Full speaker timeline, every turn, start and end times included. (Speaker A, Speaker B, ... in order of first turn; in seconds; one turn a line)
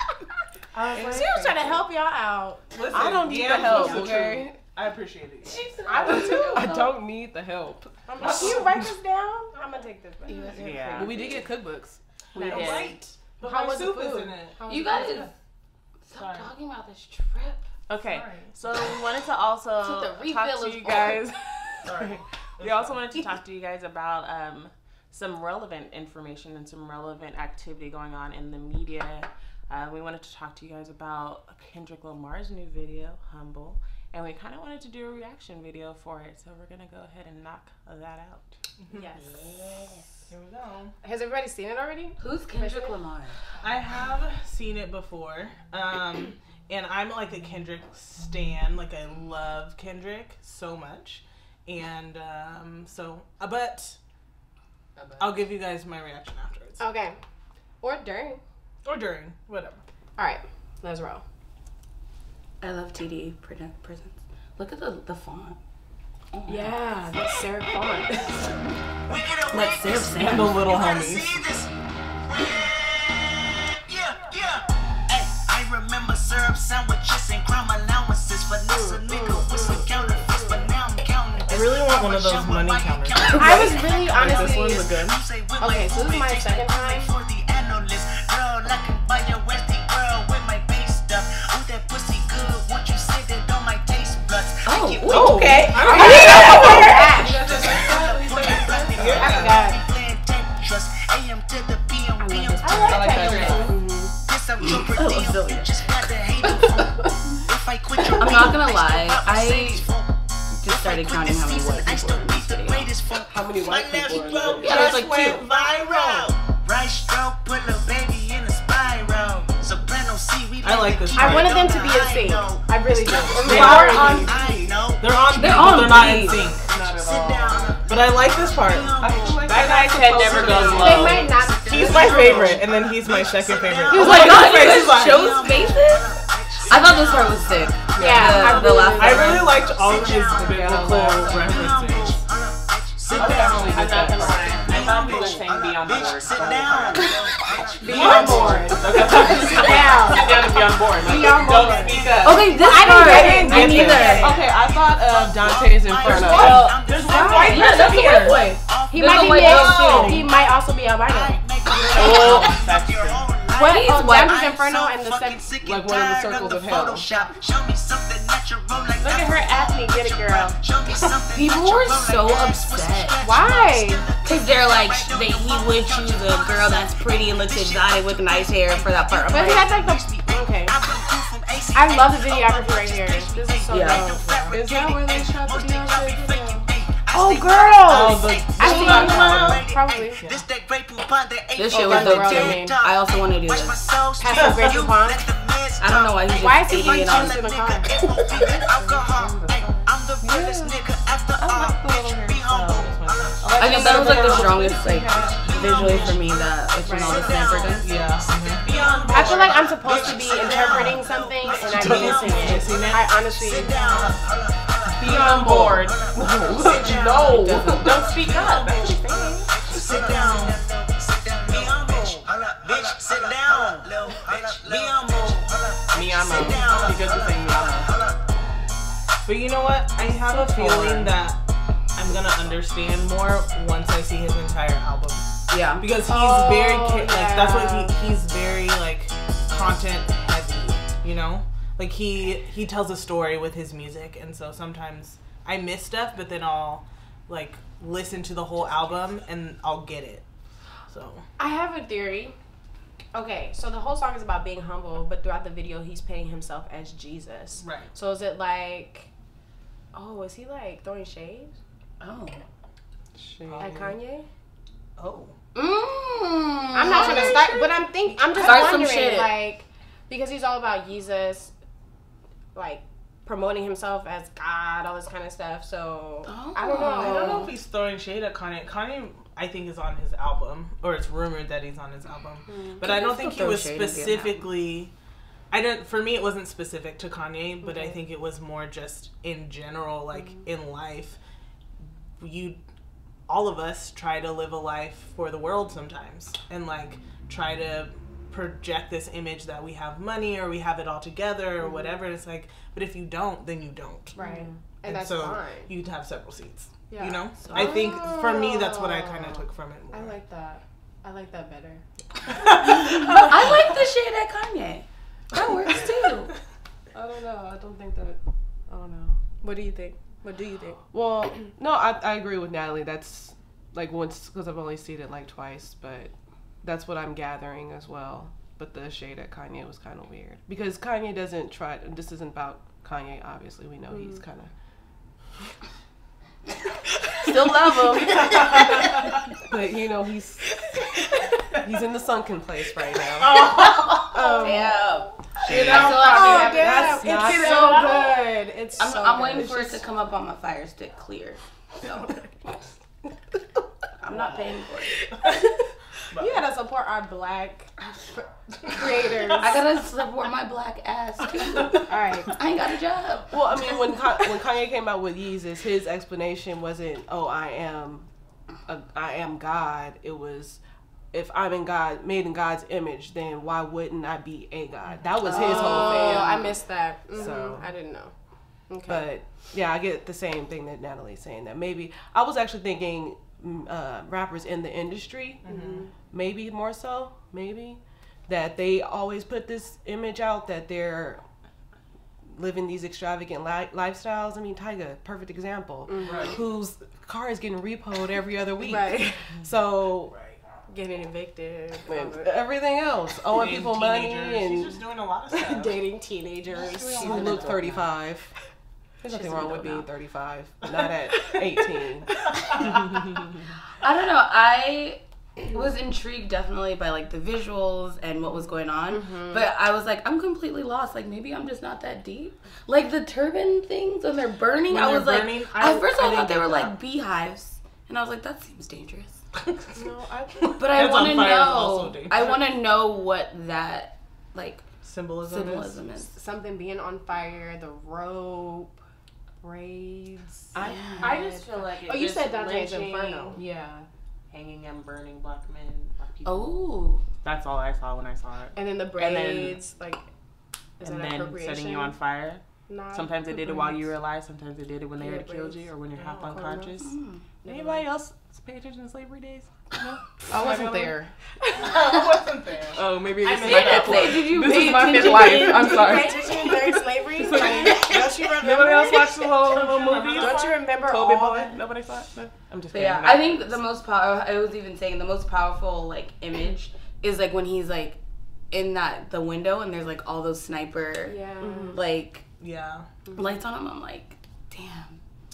Speaker A: 0.7-1.8
Speaker B: 0.9-2.8
Speaker A: 2.7-5.6
Speaker C: 2.9-4.6
Speaker B: 3.5-4.4
Speaker D: 3.6-4.3
Speaker D: 5.4-7.0
Speaker B: 5.8-6.6
Speaker E: 5.9-6.4
Speaker C: 6.0-8.6
Speaker B: 8.1-11.5
Speaker A: 8.2-8.9
Speaker D: 10.3-11.5
Speaker E: 10.6-11.2
Speaker C: 10.9-12.0
Speaker E: 12.3-13.0
Speaker A: 12.4-15.2
Speaker B: 12.4-12.8
Speaker B: 13.4-15.3
Speaker D: 14.7-15.3
Speaker D: 16.0-17.7
Speaker A: 16.1-16.5
Speaker E: 17.9-38.6
Speaker A: 18.0-18.6
Speaker D: 19.8-21.2
Speaker A: 21.8-23.0
Speaker A: 38.8-39.1
Speaker B: 38.9-39.5
Speaker D: 39.1-40.0
Speaker A: 40.3-40.9
Speaker B: 41.0-43.0
Speaker D: 42.2-43.4
Speaker A: 43.6-54.0
Speaker A: 55.2-56.8
Speaker B: 56.8-57.2
Speaker B: 57.8-58.4
Speaker A: 58.8-59.8
Speaker B: 60.2-61.2
Speaker D: 62.6-65.6
Speaker D: 66.3-66.7
Speaker B: 66.5-68.5
Speaker F: 69.1-71.7
Speaker D: 69.5-70.6
Speaker A: 70.2-71.5
Speaker F: 72.3-103.4
Speaker B: 78.7-80.7
Speaker A: 81.5-85.2
Speaker B: 83.3-85.0
Speaker B: 85.6-87.1
Speaker D: 94.6-97.2
Speaker B: 95.1-97.5
Speaker C: 95.3-99.3
Speaker A: 95.5-96.7
Speaker A: 97.5-97.8
Speaker A: 98.9-99.7
Speaker B: 99.1-99.8
Speaker D: 102.2-103.7
Speaker B: 102.6-104.1
Speaker C: 102.8-103.8
Speaker E: 103.1-103.7
Speaker F: 104.1-110.1
Speaker D: 104.6-106.0
Speaker D: 108.2-109.9
Speaker D: 110.5-112.9
Speaker F: 110.6-150.2
Speaker C: 113.3-114.9
Speaker D: 114.5-115.4
Speaker A: 114.5-116.3
Speaker A: 120.6-121.7
Speaker B: 121.1-124.4
Speaker A: 123.4-126.6
Speaker D: 123.6-124.0
Speaker D: 125.3-126.5
Speaker E: 126.6-127.8
Speaker A: 127.9-128.9
Speaker C: 129.0-131.1
Speaker E: 129.4-131.3
Speaker A: 129.4-129.9
Speaker B: 130.7-132.6
Speaker A: 131.6-135.4
Speaker B: 133.9-134.4
Speaker D: 133.9-136.2
Speaker D: 136.7-139.6
Speaker B: 138.0-139.6
Speaker E: 138.0-138.5
Speaker A: 138.6-142.2
Speaker C: 140.4-141.4
Speaker C: 143.1-144.7
Speaker E: 143.1-147.2
Speaker B: 143.2-144.8
Speaker A: 144.7-145.1
Speaker D: 147.8-148.8
Speaker A: 147.8-150.4
Speaker E: 147.8-153.3
Speaker B: 147.8-154.4
Speaker C: 149.1-149.5
Speaker F: 151.9-152.5
Speaker A: 151.9-154.3
Speaker D: 152.2-154.4
Speaker C: 153.0-156.8
Speaker F: 153.9-204.1
Speaker B: 156.0-161.4
Speaker A: 156.3-158.4
Speaker D: 157.1-160.2
Speaker A: 159.3-160.3
Speaker A: 161.7-162.5
Speaker E: 161.9-163.2
Speaker B: 163.5-165.5
Speaker D: 163.6-164.4
Speaker C: 165.6-167.1
Speaker E: 168.9-170.6
Speaker D: 171.3-173.2
Speaker B: 173.2-174.1
Speaker D: 174.2-179.8
Speaker B: 179.3-180.8
Speaker B: 181.7-185.3
Speaker D: 183.7-184.1
Speaker A: 184.2-184.5
Speaker C: 184.5-186.2
Speaker B: 187.1-190.2
Speaker A: 187.8-189.7
Speaker D: 191.5-193.8
Speaker B: 191.7-192.8
Speaker B: 194.2-195.3
Speaker A: 194.4-194.6
Speaker D: 195.8-197.4
Speaker B: 196.3-198.7
Speaker E: 198.8-199.9
Speaker C: 200.2-200.8
Speaker C: 201.3-202.7
Speaker A: 202.5-203.5
Speaker C: 203.4-206.1
Speaker D: 203.6-207.9
Speaker B: 203.8-204.5
Speaker F: 205.4-228.3
Speaker A: 205.6-206.2
Speaker B: 206.8-207.4
Speaker A: 207.8-211.0
Speaker E: 208.6-209.2
Speaker B: 209.1-214.1
Speaker A: 211.7-213.1
Speaker D: 215.0-215.8
Speaker E: 215.0-216.1
Speaker C: 216.1-217.8
Speaker D: 216.5-218.0
Speaker E: 216.7-219.6
Speaker A: 218.2-219.0
Speaker A: 219.7-220.6
Speaker A: 221.5-222.1
Speaker A: 222.8-223.7
Speaker A: 224.2-225.0
Speaker E: 225.9-227.9
Speaker A: 229.2-231.4
Speaker D: 230.5-230.8
Speaker A: 231.9-250.2
Speaker D: 235.5-235.9
Speaker B: 236.0-237.9
Speaker A: 250.9-251.2
Speaker B: 251.4-252.3
Speaker B: 253.1-259.1
Speaker A: 257.6-257.9
Speaker B: 259.9-261.5
Speaker D: 262.0-262.4
Speaker C: 263.2-263.9
Speaker A: 263.4-263.7
Speaker B: 263.6-264.3
Speaker A: 265.0-265.3
Speaker D: 265.5-269.4
Speaker B: 266.7-271.5
Speaker A: 268.0-268.9
Speaker B: 272.5-277.5
Speaker D: 276.2-277.5
Speaker A: 276.9-284.9
Speaker B: 282.5-282.9
Speaker D: 282.8-284.5
Speaker A: 285.5-291.2
Speaker B: 287.6-288.0
Speaker B: 290.1-290.4
Speaker A: 291.8-292.6
Speaker A: 293.3-304.2
Speaker B: 301.6-302.0
Speaker B: 304.1-305.7
Speaker C: 304.2-304.6
Speaker A: 304.8-310.1
Speaker B: 306.9-311.8
Speaker A: 312.3-313.8
Speaker D: 312.6-316.3
Speaker C: 316.9-319.2
Speaker B: 319.4-320.9
Speaker C: 320.9-334.5
Speaker C: 337.2-338.5
Speaker D: 337.2-338.8
Speaker A: 338.2-339.0
Speaker C: 339.5-340.6
Speaker C: 341.5-343.5
Speaker A: 343.2-344.3
Speaker B: 343.7-344.9
Speaker C: 344.2-344.7
Speaker D: 344.4-347.9
Speaker A: 345.4-348.1
Speaker B: 345.4-349.6
Speaker C: 345.6-348.1
Speaker D: 348.8-352.6
Speaker C: 349.4-349.8
Speaker D: 354.0-354.9
Speaker A: 354.1-354.4
Speaker A: 356.1-356.4
Speaker B: 356.1-359.6
Speaker A: 359.0-359.5
Speaker D: 359.4-363.8
Speaker B: 361.7-362.4
Speaker C: 363.3-368.1
Speaker C: 368.7-370.6
Speaker C: 371.1-376.6
Speaker B: 375.2-378.1
Speaker D: 375.2-376.4
Speaker C: 377.1-377.7
Speaker B: 378.7-379.1
Speaker C: 378.9-385.4
Speaker A: 385.4-385.9
Speaker B: 385.4-385.9
Speaker C: 386.0-391.2
Speaker C: 392.2-400.1
Speaker B: 395.9-396.4
Speaker A: 396.0-396.4
Speaker B: 398.6-399.3
Speaker A: 400.1-400.4
Speaker B: 400.7-402.3
Speaker C: 401.9-404.8
Speaker A: 403.3-405.8
Speaker B: 405.3-407.7
Speaker A: 406.6-407.7
Speaker E: 406.8-407.5
Speaker C: 406.9-408.3
Speaker C: 409.0-412.7
Speaker B: 409.2-409.8
Speaker D: 409.3-409.8
Speaker A: 412.4-412.9
Speaker D: 413.8-429.2
Speaker B: 418.9-419.5
Speaker A: 424.7-426.8
Speaker A: 429.3-429.7
Speaker C: 429.7-430.5
Speaker A: 430.4-432.5
Speaker D: 430.6-434.6
Speaker A: 434.8-435.8
Speaker D: 435.2-436.1
Speaker B: 436.0-438.8
Speaker B: 439.4-443.7
Speaker C: 440.5-441.0
Speaker D: 440.6-441.1
Speaker E: 441.0-443.4
Speaker C: 443.4-443.9
Speaker E: 444.3-446.6
Speaker D: 446.2-447.0
Speaker E: 447.2-449.6
Speaker B: 448.5-450.1
Speaker B: 450.8-451.9
Speaker E: 450.8-460.1
Speaker B: 452.7-453.9
Speaker B: 455.0-455.7
Speaker A: 455.9-456.4
Speaker B: 456.2-456.7
Speaker D: 456.8-457.2
Speaker B: 457.4-457.9
Speaker C: 460.3-461.7
Speaker B: 460.4-460.9
Speaker A: 461.5-464.3
Speaker C: 462.7-465.0
Speaker E: 463.3-473.6
Speaker D: 463.4-466.0
Speaker B: 464.9-471.6
Speaker A: 469.4-470.5
Speaker D: 472.7-478.0
Speaker D: 478.5-482.2
Speaker B: 481.1-481.8
Speaker A: 482.4-482.9
Speaker B: 483.1-483.4
Speaker D: 483.1-485.0